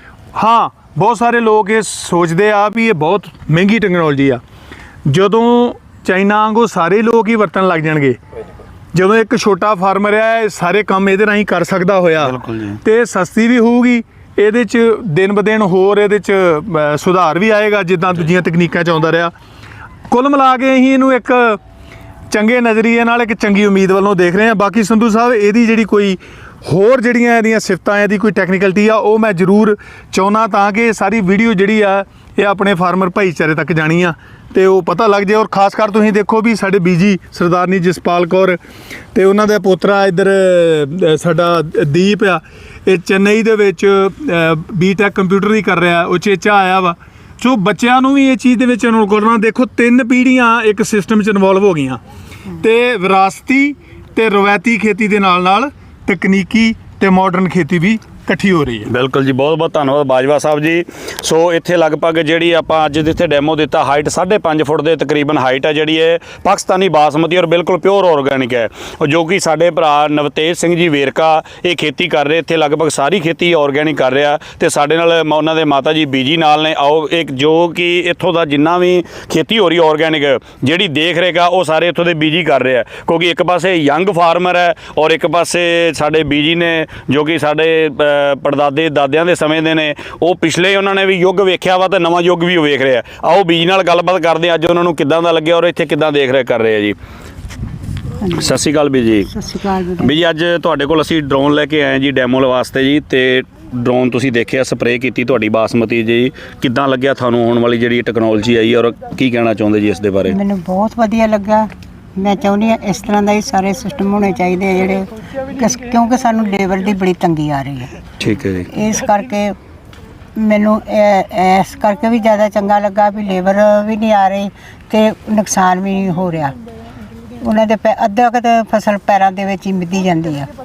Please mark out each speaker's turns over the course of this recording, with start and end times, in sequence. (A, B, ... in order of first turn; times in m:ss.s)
0:00.4-0:04.4 A
0:05.0-0:08.2 A
0:08.9-0:19.3 A
0:12.2-0:12.8 B
0:20.1-0:21.6 A
0:22.3-0:38.6 A
0:39.1-0:52.0 A
0:52.6-0:58.9 A
0:58.9-1:37.0 B
1:38.2-1:38.6 C
1:38.4-1:39.3 B
1:39.3-1:40.1 C
1:40.0-1:50.4 B
1:50.3-1:57.9 C
1:58.2-1:58.7 B
1:58.7-1:59.5 C
2:00.4-2:06.5 C
2:07.4-2:10.5 C